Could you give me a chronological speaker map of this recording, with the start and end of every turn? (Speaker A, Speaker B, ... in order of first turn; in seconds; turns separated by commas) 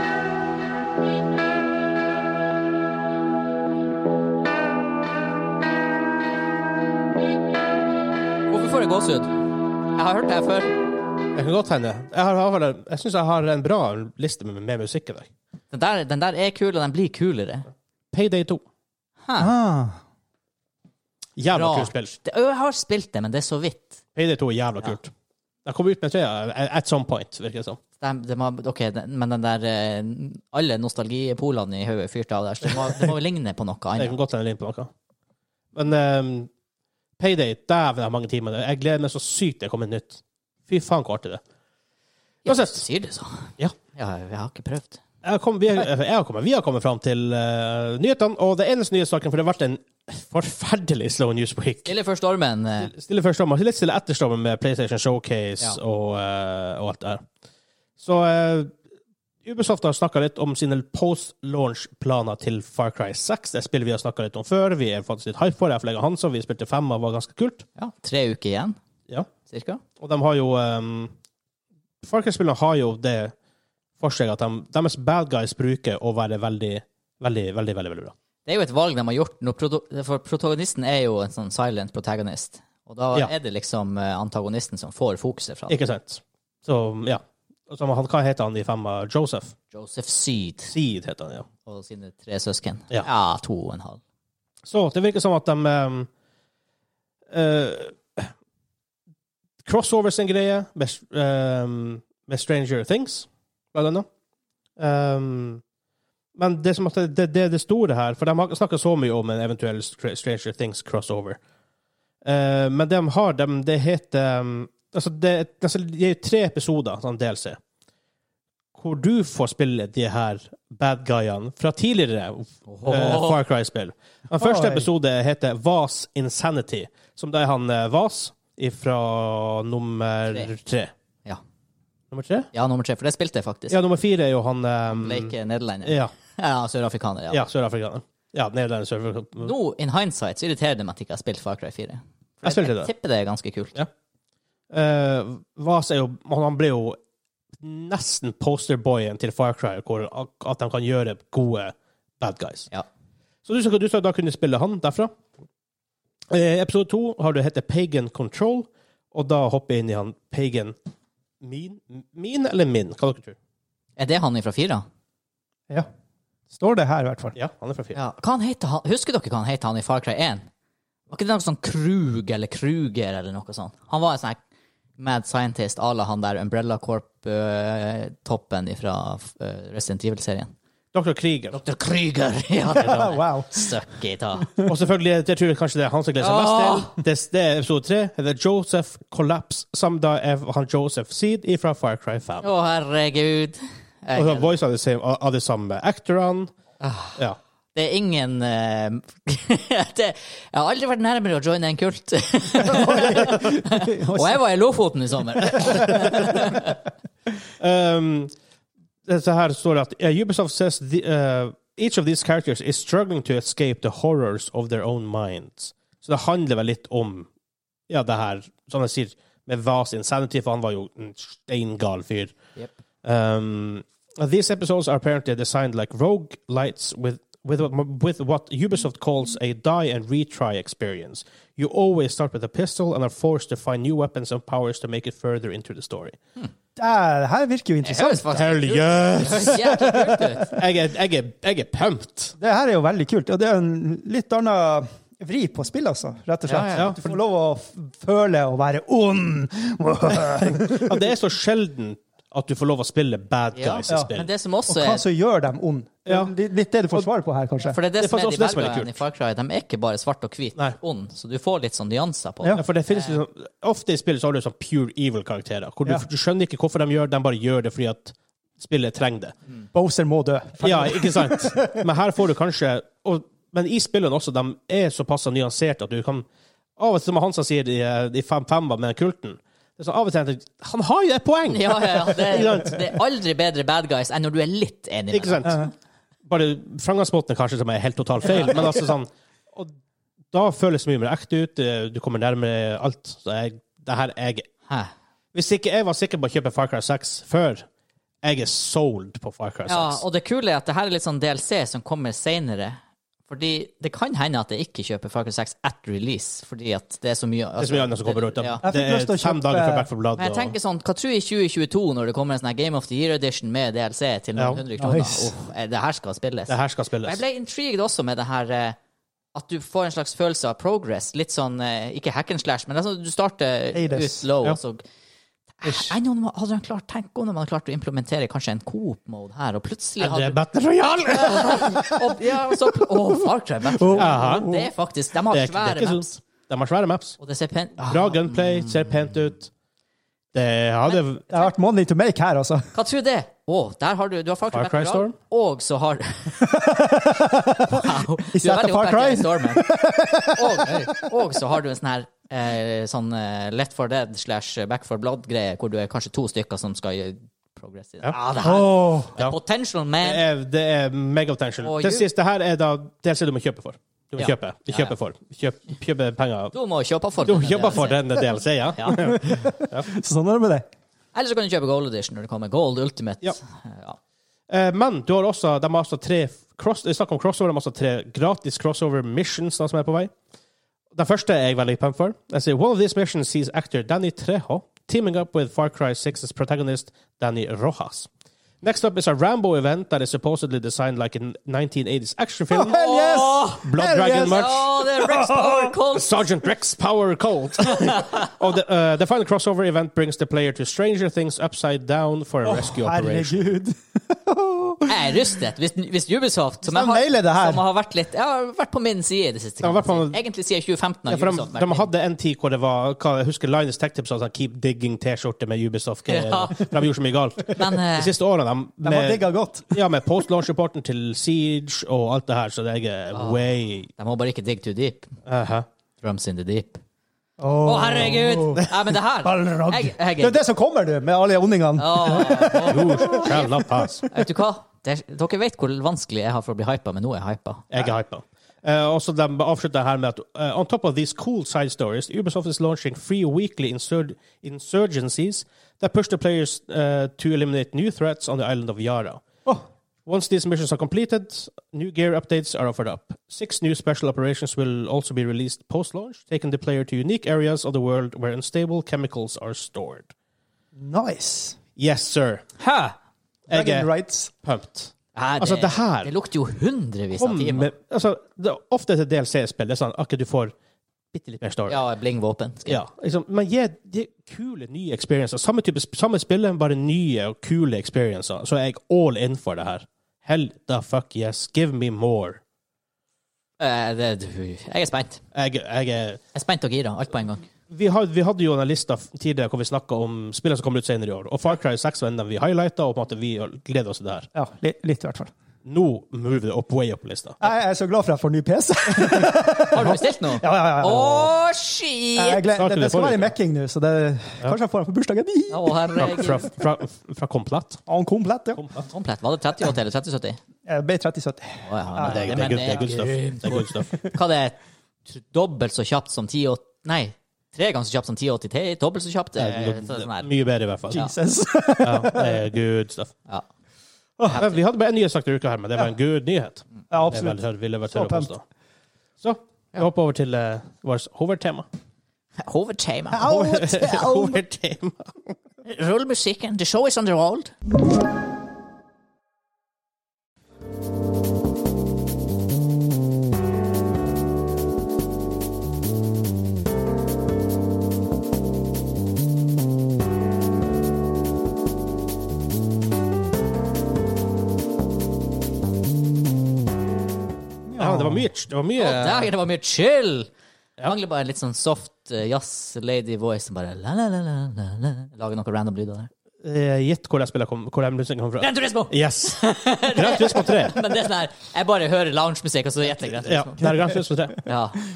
Speaker A: 8.5-9.3, Speaker A: 9.9-10.8, Speaker B: 11.3-15.3, Speaker A: 15.7-17.7, Speaker B: 18.1-18.6, Speaker A: 19.3-19.5, Speaker C: 19.4-20.0, Speaker B: 21.4-22.1, Speaker A: 21.5-24.0, Speaker B: 24.2-25.1, Speaker B: 25.6-27.8, Speaker A: 28.0-34.2, Speaker B: 34.0-34.9, Speaker B: 35.8-36.5, Speaker B: 37.2-41.4, Speaker A: 42.5-45.0, Speaker B: 42.5-42.8, Speaker B: 45.2-51.9, Speaker A: 51.9-52.9, Speaker B: 52.8-57.2, Speaker B: 58.0-58.7, Speaker B: 59.4-67.7, Speaker A: 67.8-68.8, Speaker A: 69.5-69.8, Speaker B: 70.0-71.1, Speaker B: 72.0-73.3, Speaker B: 74.0-78.1, Speaker A: 78.5-85.8, Speaker B: 85.7-89.5, Speaker A: 89.7-90.7, Speaker B: 90.7-91.5, Speaker A: 91.7-94.0, Speaker B: 94.7-96.1, Speaker B: 97.3-98.3, Speaker B: 99.7-104.1, Speaker B: 104.8-105.6, Speaker B: 106.4-111.4, Speaker B: 112.2-117.6, Speaker B: 118.8-130.9, Speaker A: 122.7-123.4, Speaker C: 124.4-124.9, Speaker B: 132.1-132.5, Speaker A: 132.5-133.8, Speaker B: 133.7-135.3, Speaker A: 134.9-137.4, Speaker B: 135.8-136.1, Speaker B: 137.3-139.5, Speaker A: 139.4-143.8, Speaker B: 142.4-142.9, Speaker B: 144.7-147.0, Speaker B: 147.6-152.7, Speaker B: 153.4-155.1, Speaker B: 156.3-160.8, Speaker B: 161.4-163.4, Speaker A: 164.0-164.8, Speaker C: 166.5-167.4, Speaker B: 167.3-168.0, Speaker A: 167.9-170.5, Speaker A: 171.1-174.4, Speaker A: 175.0-180.5, Speaker B: 180.9-181.6, Speaker A: 181.5-184.5, Speaker C: 182.8-183.5, Speaker B: 184.7-192.5, Speaker A: 186.2-187.0, Speaker A: 192.4-194.5, Speaker B: 194.2-196.5, Speaker A: 196.8-197.2, Speaker A: 197.8-206.8, Speaker C: 202.6-204.4, Speaker C: 205.7-206.5, Speaker B: 207.6-208.3, Speaker B: 209.1-217.3, Speaker B: 217.9-222.4, Speaker B: 223.0-236.2, Speaker C: 236.8-238.3, Speaker A: 237.8-240.6, Speaker B: 238.3-239.9, Speaker C: 239.5-240.5, Speaker B: 240.5-242.3, Speaker C: 242.4-251.1, Speaker A: 246.5-247.0, Speaker B: 250.6-254.3, Speaker A: 253.6-255.0, Speaker C: 254.7-257.8, Speaker B: 256.1-256.3, Speaker A: 257.7-263.2, Speaker B: 258.0-258.9, Speaker B: 262.6-269.4, Speaker C: 269.7-271.8, Speaker B: 270.6-276.3, Speaker B: 276.8-282.9, Speaker A: 281.5-285.7, Speaker B: 285.1-285.7, Speaker B: 286.2-289.7, Speaker A: 288.3-288.6, Speaker B: 290.3-294.5, Speaker B: 295.3-297.6, Speaker B: 298.2-300.0, Speaker A: 299.7-308.6, Speaker B: 307.6-310.5, Speaker C: 308.6-309.9, Speaker A: 310.2-318.8, Speaker B: 314.4-314.6, Speaker C: 314.8-315.3, Speaker B: 316.5-317.2, Speaker A: 319.3-324.8, Speaker C: 323.7-324.3, Speaker A: 325.6-330.4, Speaker B: 330.0-331.7, Speaker A: 331.1-336.1, Speaker C: 333.7-334.7, Speaker B: 334.0-334.5, Speaker B: 335.3-337.2, Speaker A: 337.2-338.9, Speaker B: 337.8-339.5, Speaker B: 340.3-341.3, Speaker A: 340.9-341.5, Speaker C: 341.3-342.7, Speaker A: 342.7-346.6, Speaker B: 344.5-345.1, Speaker C: 346.4-350.9, Speaker A: 347.6-349.7, Speaker A: 350.3-360.2, Speaker C: 358.4-359.1, Speaker B: 359.1-359.4, Speaker B: 360.0-366.5, Speaker A: 361.6-362.1, Speaker A: 364.2-364.9, Speaker A: 366.5-368.1, Speaker B: 367.2-369.9, Speaker A: 368.8-369.0, Speaker C: 368.9-370.7, Speaker A: 371.1-374.0, Speaker B: 374.5-380.1, Speaker B: 380.9-388.1, Speaker B: 388.6-392.8, Speaker C: 392.5-395.8, Speaker A: 392.7-396.3, Speaker B: 393.6-394.7, Speaker B: 395.9-403.5, Speaker A: 397.8-398.3, Speaker C: 402.4-405.1, Speaker A: 404.9-411.9, Speaker C: 406.6-407.6, Speaker B: 409.6-410.2, Speaker B: 411.1-423.9, Speaker A: 416.1-416.6, Speaker A: 417.6-418.1, Speaker C: 418.8-419.8, Speaker A: 423.1-423.4, Speaker A: 424.0-425.1, Speaker B: 425.3-425.7, Speaker A: 426.0-426.8, Speaker C: 427.4-433.6, Speaker A: 427.6-430.4, Speaker A: 431.8-433.5, Speaker B: 432.7-434.1, Speaker A: 434.1-437.7, Speaker B: 437.7-449.2, Speaker B: 450.1-460.1, Speaker C: 460.8-461.6, Speaker B: 461.8-462.5, Speaker A: 462.6-462.9, Speaker B: 463.5-463.9, Speaker C: 463.5-464.3, Speaker B: 464.4-466.1, Speaker A: 465.1-467.7, Speaker B: 467.2-470.5, Speaker B: 471.1-471.8, Speaker A: 471.7-472.8, Speaker B: 472.7-482.4, Speaker A: 483.6-485.2, Speaker B: 485.3-486.2, Speaker A: 486.3-487.5, Speaker B: 487.7-494.3, Speaker C: 494.4-495.3, Speaker B: 495.6-497.4, Speaker C: 497.4-501.3, Speaker A: 499.7-502.4, Speaker C: 502.1-505.7, Speaker B: 502.6-503.3, Speaker A: 505.5-506.5, Speaker B: 506.0-507.8, Speaker C: 507.9-508.6, Speaker B: 508.6-508.9, Speaker A: 508.9-510.4, Speaker C: 510.7-512.8, Speaker A: 511.7-520.3, Speaker B: 512.0-514.0, Speaker B: 519.4-521.1, Speaker C: 520.9-522.4, Speaker B: 521.8-523.1, Speaker B: 524.3-528.4, Speaker A: 524.3-524.5, Speaker C: 526.9-528.3, Speaker B: 529.2-531.6, Speaker A: 532.4-533.3, Speaker C: 533.1-534.4, Speaker B: 533.2-535.4, Speaker A: 535.6-537.5, Speaker C: 557.7-558.2, Speaker B: 557.8-559.3, Speaker A: 558.8-560.3, Speaker A: 560.8-566.1, Speaker B: 566.4-569.4, Speaker A: 568.4-573.7, Speaker B: 569.9-570.8, Speaker B: 573.2-574.5, Speaker A: 574.5-574.8